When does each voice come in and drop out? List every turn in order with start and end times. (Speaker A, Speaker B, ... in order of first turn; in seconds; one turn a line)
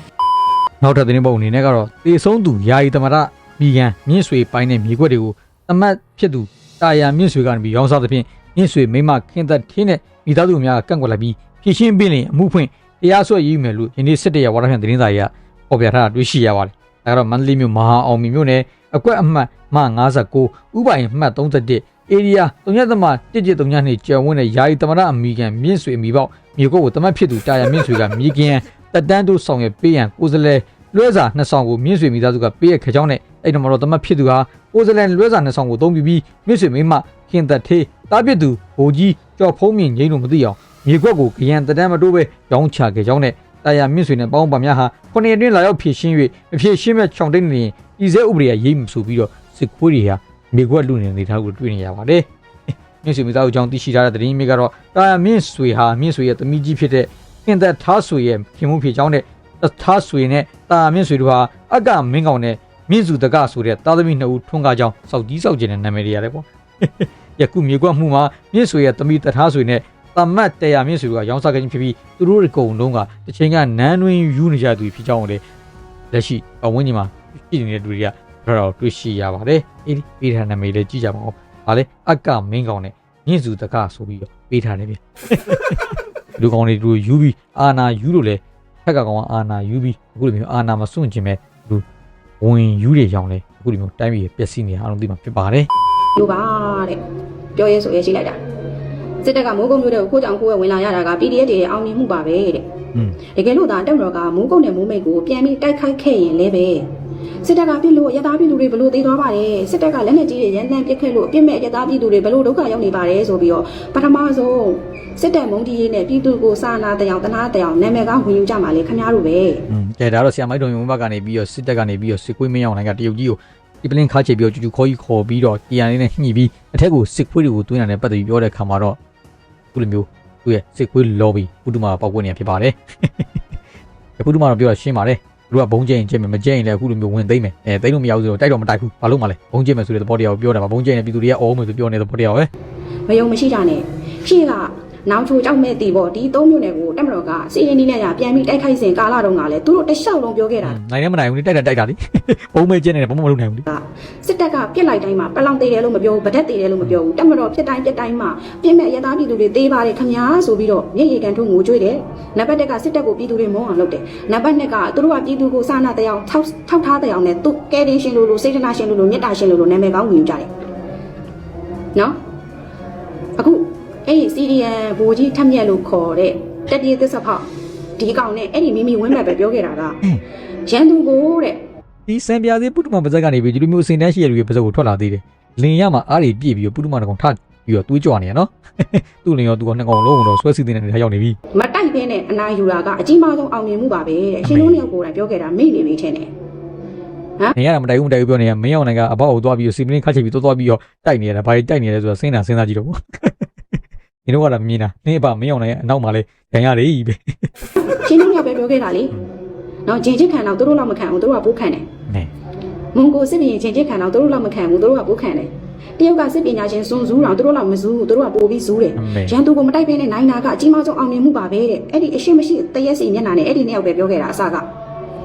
Speaker A: 0.8-52.3
Speaker A: 53.0-75.4
Speaker A: 76.1-91.8
Speaker A: 92.4-95.7
Speaker B: 96.2-97.0
Speaker B: 97.5-98.4
Speaker B: 99.2-102.7
Speaker B: 103.3-106.9
Speaker B: 107.4-119.6
Speaker A: 119.7-129.0
Speaker A: 129.7-133.3
Speaker A: 134.2-142.5
Speaker B: 143.1-150.8
Speaker A: 150.6-153.7
Speaker B: 153.7-170.5
Speaker B: 173.4-177.5
Speaker B: 178.0-180.0
Speaker B: 180.7-181.6
Speaker A: 182.1-191.4
Speaker B: 191.5-196.3
Speaker A: 194.4-194.8
Speaker A: 197.6-203.3
Speaker A: 204.2-207.7
Speaker B: 208.0-209.1
Speaker B: 209.8-211.9
Speaker B: 212.9-224.7
Speaker A: 219.0-219.3